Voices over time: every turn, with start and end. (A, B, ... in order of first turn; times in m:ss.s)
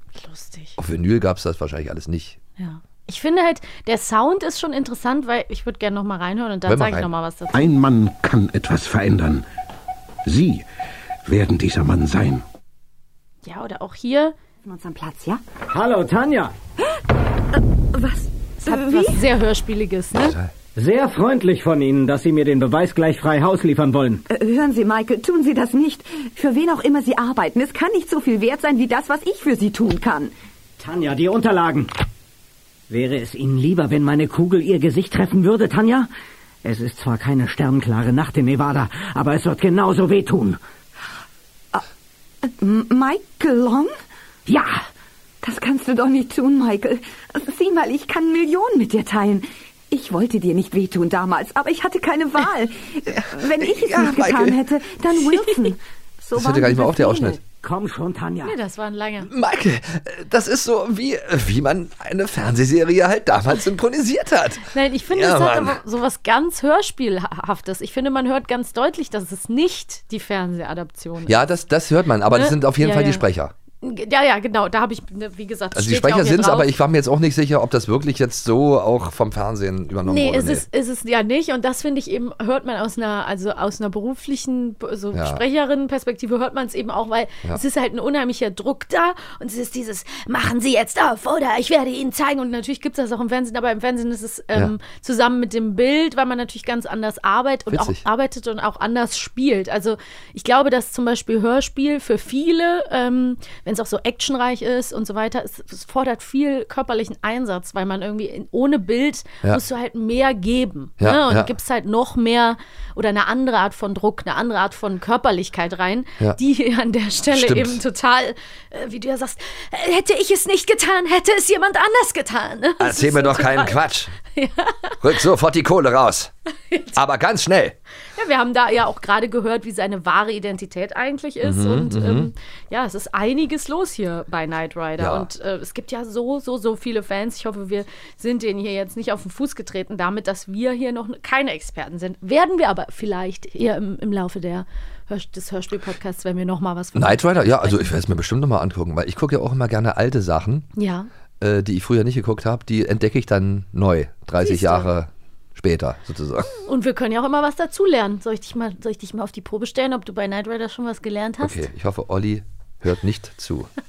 0:00.2-0:00.8 A
0:00.8-0:02.4 B
0:02.6-0:07.6 A
0:06.6-0:07.1 B
0:07.5-0:09.4 C
0:10.2-0:10.6 C
0:11.2-0:12.4 C
0:13.4-0:14.3 A
0:14.6-0:15.4 D
0:15.7-0:16.5 E
0:17.6-0:19.2 D
0:18.6-0:20.4 A
0:20.1-0:20.5 B
0:20.8-0:24.2 E
0:24.3-0:30.3 D
0:30.8-0:31.9 E
0:32.9-0:36.1 E
0:36.6-0:40.6 E
0:42.5-0:43.9 D
0:44.5-0:44.7 E
0:45.4-0:57.4 D
0:53.1-0:54.6 B
0:56.3-0:57.4 B
0:57.6-0:58.6 E
0:58.4-0:59.3 A
0:59.2-1:05.8 B
1:04.7-1:11.4 A
1:11.2-1:13.5 B
1:12.3-1:13.2 A
1:13.8-1:16.7 A
1:15.7-1:20.6 B
1:20.0-2:05.1 A
1:25.1-1:25.4 B
1:37.7-1:38.0 B
1:51.0-1:51.5 B
1:57.3-1:57.8 B
2:02.8-2:04.1 B
2:05.0-2:06.3 B
2:06.7-2:07.0 A
2:06.9-2:07.8 B
2:08.1-2:27.9 A
2:11.4-2:12.3 B
2:15.0-2:15.3 B
2:26.9-2:30.7 B
2:30.8-2:31.1 A
2:31.4-2:36.5 B
2:34.4-2:34.9 A
2:36.6-2:41.7 A
2:41.4-2:43.7 B